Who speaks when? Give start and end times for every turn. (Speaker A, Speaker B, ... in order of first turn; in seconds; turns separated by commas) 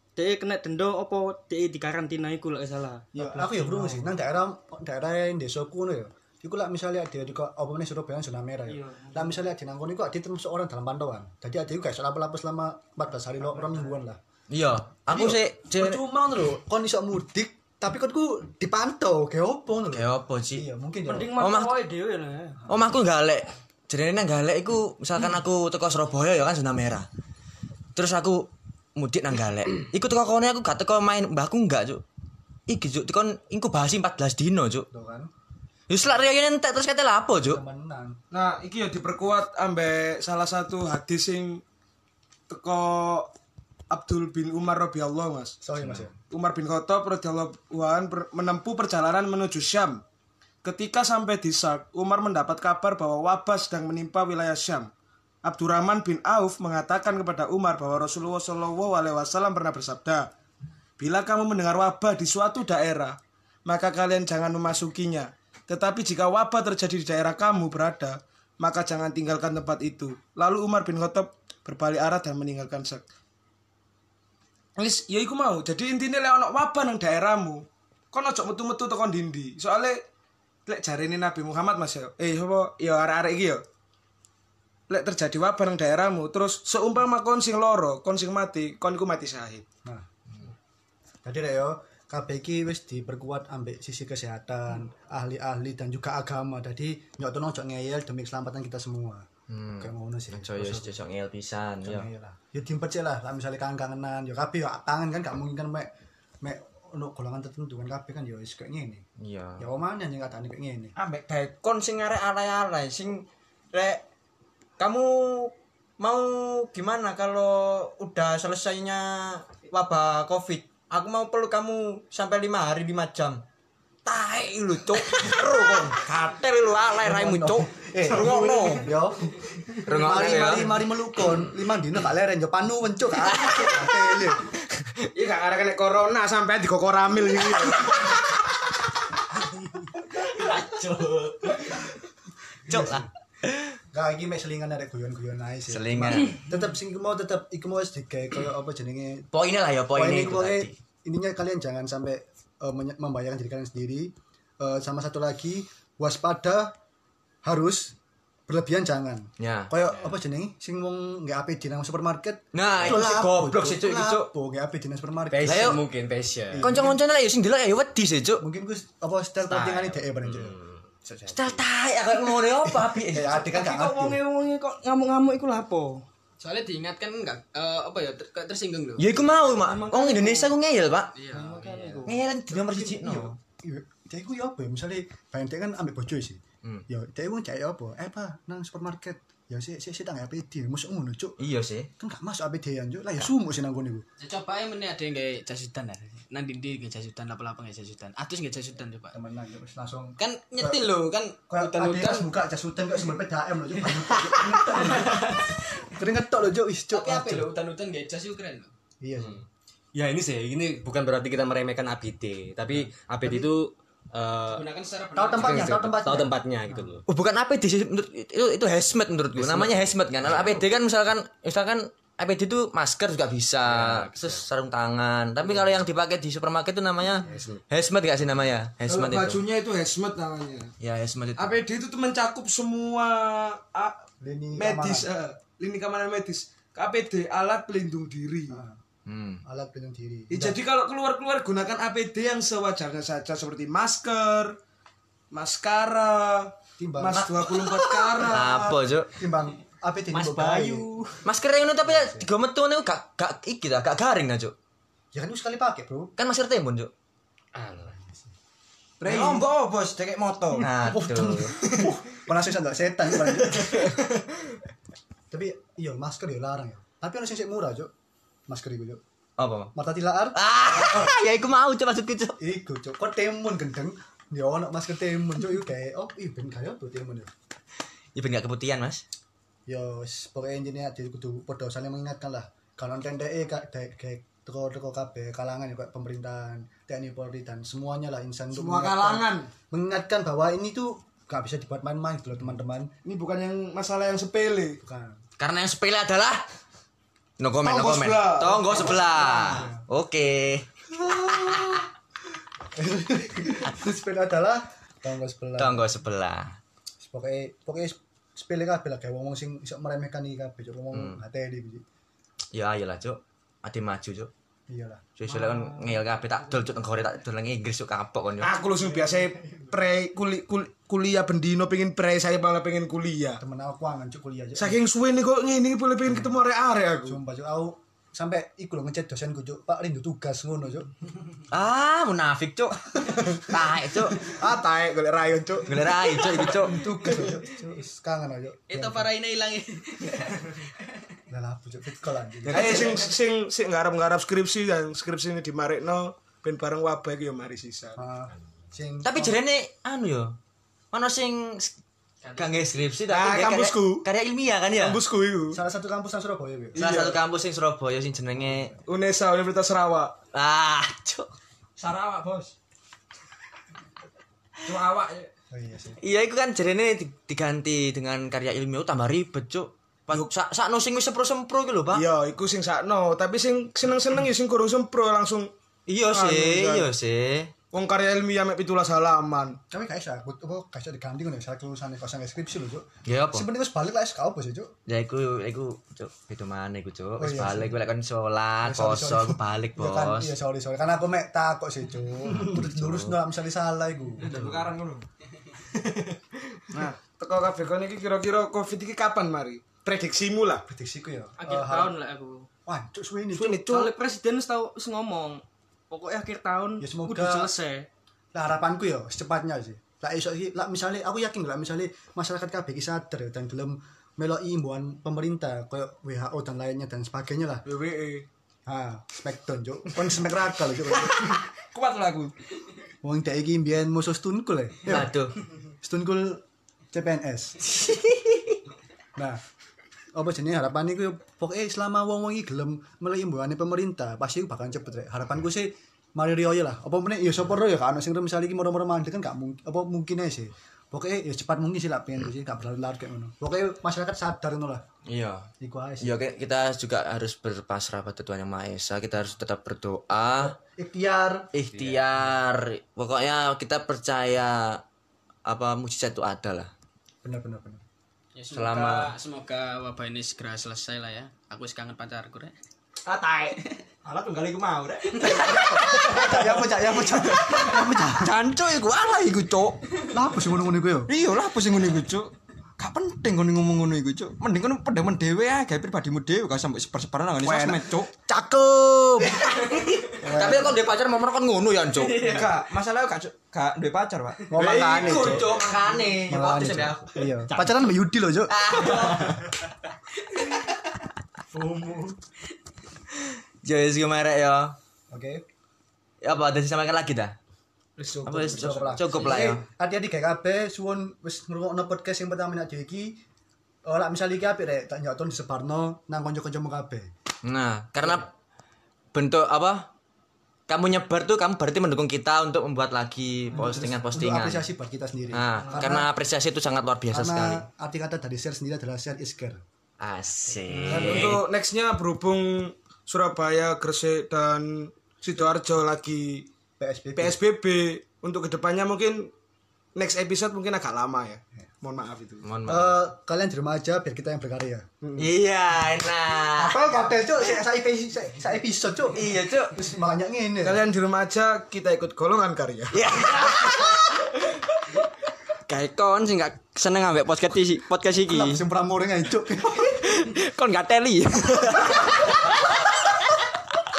Speaker A: 0.1-4.1, Speaker B: 3.1-14.2, Speaker A: 8.7-9.4, Speaker C: 14.5-16.0, Speaker B: 15.1-21.4, Speaker C: 19.9-20.7, Speaker A: 21.1-22.7, Speaker C: 21.4-21.8, Speaker C: 22.7-27.1, Speaker C: 27.9-32.0, Speaker C: 32.7-34.9, Speaker B: 34.9-35.3, Speaker C: 35.9-37.6, Speaker B: 37.4-38.2, Speaker D: 38.3-41.6, Speaker D: 42.5-43.3, Speaker D: 43.9-45.6, Speaker B: 45.6-46.1, Speaker D: 46.3-50.0, Speaker D: 50.6-54.9, Speaker D: 55.4-60.3, Speaker D: 61.0-73.0, Speaker D: 74.8-80.0, Speaker D: 80.7-83.6, Speaker D: 84.9-89.6, Speaker B: 91.2-99.2, Speaker C: 99.5-102.1, Speaker B: 99.8-100.9, Speaker B: 101.8-109.0, Speaker C: 109.2-109.7, Speaker B: 109.6-110.9, Speaker E: 111.0-114.0, Speaker E: 114.8-123.4, Speaker E: 124.0-128.9, Speaker B: 127.0-134.4, Speaker C: 129.8-130.9, Speaker D: 135.0-138.1, Speaker B: 142.7-143.1, Speaker C: 142.7-143.7, Speaker B: 143.9-149.3, Speaker C: 145.7-146.4, Speaker C: 149.3-150.7, Speaker B: 149.9-156.7, Speaker B: 157.4-157.9, Speaker B: 158.5-165.8, Speaker C: 159.4-159.7, Speaker C: 162.5-164.3, Speaker F: 165.3-166.8, Speaker C: 165.4-165.8, Speaker B: 166.5-167.0, Speaker C: 166.6-168.4, Speaker B: 168.4-170.6, Speaker F: 169.5-171.6, Speaker C: 171.3-173.4, Speaker B: 172.2-174.2, Speaker A: 173.3-176.0, Speaker G: 176.4-179.3, Speaker C: 179.0-181.1, Speaker E: 179.4-180.4, Speaker G: 181.1-182.1, Speaker A: 181.3-182.0, Speaker C: 182.1-183.3, Speaker B: 182.5-191.4, Speaker C: 191.4-191.9, Speaker B: 192.0-194.0, Speaker G: 194.2-199.2, Speaker B: 199.1-200.8, Speaker G: 200.2-202.3, Speaker B: 201.5-207.5, Speaker G: 204.3-205.6, Speaker G: 206.9-208.7, Speaker B: 209.0-209.4, Speaker F: 209.9-214.6, Speaker G: 214.5-215.9, Speaker B: 215.2-216.9, Speaker F: 215.3-217.0, Speaker C: 217.1-229.4, Speaker F: 219.3-220.5, Speaker B: 220.2-220.6, Speaker F: 223.7-224.4, Speaker F: 225.4-225.7, Speaker F: 227.2-227.6, Speaker D: 228.8-230.7, Speaker C: 230.8-231.6, Speaker D: 231.4-234.0, Speaker B: 234.2-235.1, Speaker D: 234.6-238.6, Speaker B: 238.5-238.8, Speaker C: 239.1-239.4, Speaker B: 239.4-240.6, Speaker D: 240.3-244.6, Speaker D: 245.3-248.8, Speaker B: 246.8-247.3, Speaker C: 247.2-247.6, Speaker C: 248.2-249.1, Speaker B: 249.2-250.9, Speaker G: 250.1-251.2, Speaker C: 251.2-254.5, Speaker B: 251.8-252.3, Speaker B: 255.1-256.1, Speaker C: 256.2-256.9, Speaker F: 257.6-258.2, Speaker B: 259.0-259.4, Speaker E: 259.0-260.7, Speaker C: 260.6-261.6, Speaker B: 260.6-264.0, Speaker E: 261.6-261.9, Speaker E: 263.5-263.9, Speaker B: 265.3-267.9, Speaker B: 268.5-269.0, Speaker C: 269.4-269.7, Speaker B: 269.7-271.1, Speaker C: 270.3-272.4, Speaker B: 272.4-277.3, Speaker C: 278.1-279.0, Speaker B: 279.7-292.9, Speaker D: 288.5-289.5, Speaker D: 293.0-294.8, Speaker B: 294.8-295.2, Speaker C: 295.4-296.4, Speaker C: 297.4-300.7, Speaker D: 297.6-299.7, Speaker B: 299.1-299.8, Speaker B: 300.9-301.9, Speaker C: 301.3-301.8, Speaker B: 302.7-305.9, Speaker C: 305.6-306.6, Speaker B: 307.0-311.8, Speaker C: 310.9-311.2, Speaker C: 312.5-314.3, Speaker B: 314.7-315.0, Speaker C: 315.2-318.6, Speaker D: 318.4-323.4, Speaker B: 323.4-324.8, Speaker D: 324.6-327.2, Speaker B: 327.0-330.9, Speaker C: 331.5-334.2, Speaker D: 334.2-335.9, Speaker C: 335.6-336.8, Speaker B: 336.4-339.1, Speaker G: 338.7-340.7, Speaker B: 341.3-343.1, Speaker D: 342.4-348.0, Speaker B: 348.0-349.4, Speaker C: 349.0-350.4, Speaker C: 350.9-351.7, Speaker G: 352.2-352.5, Speaker C: 352.3-355.0, Speaker D: 353.1-354.1, Speaker D: 354.7-355.6, Speaker B: 355.5-356.8, Speaker D: 356.7-357.2, Speaker C: 356.8-358.7, Speaker D: 358.9-360.1, Speaker C: 360.3-361.3, Speaker E: 361.8-362.5, Speaker E: 364.7-365.3, Speaker B: 365.5-366.0, Speaker C: 366.0-372.0, Speaker D: 371.9-375.5, Speaker C: 375.9-377.5, Speaker D: 376.1-376.9, Speaker D: 377.7-379.6, Speaker B: 379.7-384.7, Speaker C: 383.1-383.5, Speaker C: 384.9-390.3, Speaker B: 387.2-387.7, Speaker B: 388.6-394.5, Speaker C: 392.3-393.2, Speaker E: 394.2-395.0, Speaker D: 396.7-400.6, Speaker B: 400.7-401.9, Speaker A: 401.4-402.4, Speaker B: 402.6-403.7, Speaker D: 403.3-403.9, Speaker A: 403.6-407.9, Speaker B: 406.8-407.5, Speaker B: 408.3-417.6, Speaker D: 417.6-418.2, Speaker B: 418.7-421.4, Speaker D: 421.0-422.3, Speaker B: 423.0-425.1, Speaker C: 424.9-425.4, Speaker B: 425.8-427.8, Speaker C: 427.9-428.5, Speaker B: 429.1-429.4, Speaker B: 430.1-444.8, Speaker C: 445.1-445.5, Speaker B: 445.6-446.1, Speaker C: 446.0-450.5, Speaker B: 450.6-451.5, Speaker C: 451.5-454.8, Speaker F: 451.7-452.4, Speaker C: 455.4-456.7, Speaker B: 457.2-457.8, Speaker G: 458.3-462.5, Speaker C: 458.5-459.1, Speaker E: 463.0-466.5, Speaker G: 465.2-466.3, Speaker B: 465.3-468.3, Speaker E: 467.4-470.0, Speaker B: 470.1-471.1, Speaker E: 471.1-478.1, Speaker B: 477.4-479.5, Speaker C: 479.4-482.6, Speaker B: 480.2-480.8, Speaker E: 482.0-485.7, Speaker B: 484.5-485.6, Speaker C: 484.6-487.7, Speaker B: 486.3-488.5, Speaker C: 488.5-489.6, Speaker C: 493.6-494.8, Speaker B: 495.1-495.4, Speaker C: 496.2-497.3, Speaker D: 498.0-498.8, Speaker B: 498.1-503.2, Speaker C: 498.2-499.6, Speaker B: 503.8-507.1, Speaker C: 507.4-508.3, Speaker C: 509.1-509.9, Speaker C: 510.7-514.7, Speaker B: 513.5-516.1, Speaker C: 515.3-517.6, Speaker B: 517.1-519.6, Speaker C: 520.0-521.4, Speaker D: 520.8-526.5, Speaker B: 520.9-521.3, Speaker B: 526.8-527.4, Speaker D: 527.1-529.3, Speaker D: 530.0-532.5, Speaker C: 532.4-533.0, Speaker B: 532.6-534.9, Speaker C: 535.2-536.8, Speaker B: 536.5-540.8, Speaker C: 539.1-539.7, Speaker D: 540.6-543.0, Speaker E: 543.0-543.6, Speaker C: 543.2-544.0, Speaker E: 545.7-548.6, Speaker B: 548.3-550.0, Speaker E: 549.9-552.3